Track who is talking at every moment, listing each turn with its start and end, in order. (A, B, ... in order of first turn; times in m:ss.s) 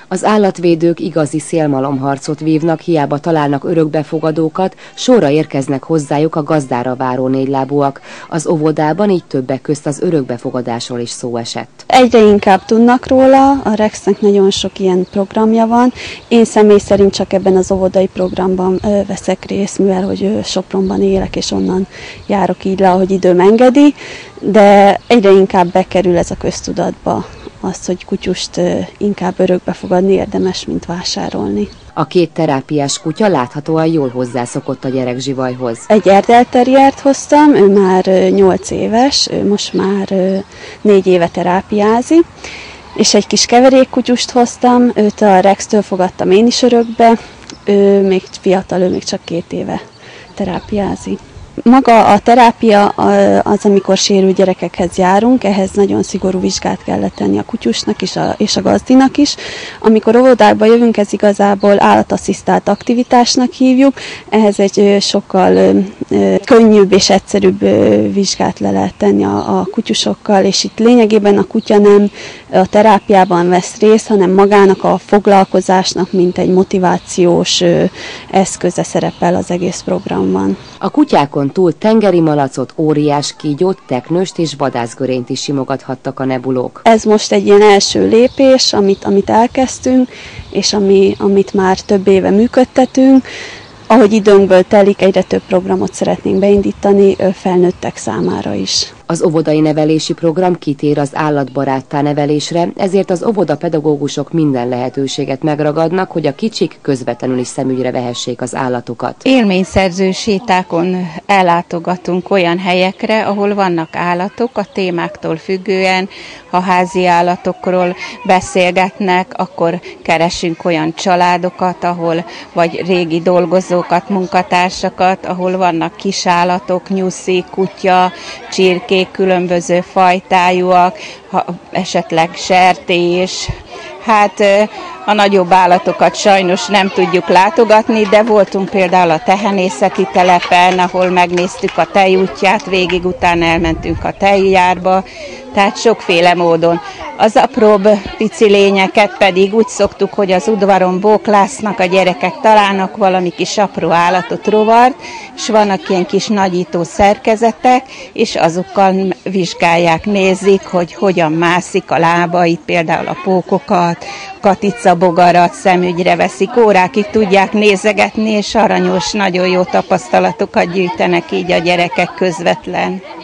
0:00.1-0:11.8 A
0:11.9-0:31.7 B
0:32.0-0:35.8 A
0:35.9-0:42.2 B
0:43.0-0:49.8 B
0:50.4-1:20.6 B
1:20.8-1:26.8 A
1:26.8-1:33.2 B
1:33.9-1:38.9 B
1:39.1-1:49.2 A
1:49.2-2:13.5 C
2:14.0-2:53.0 C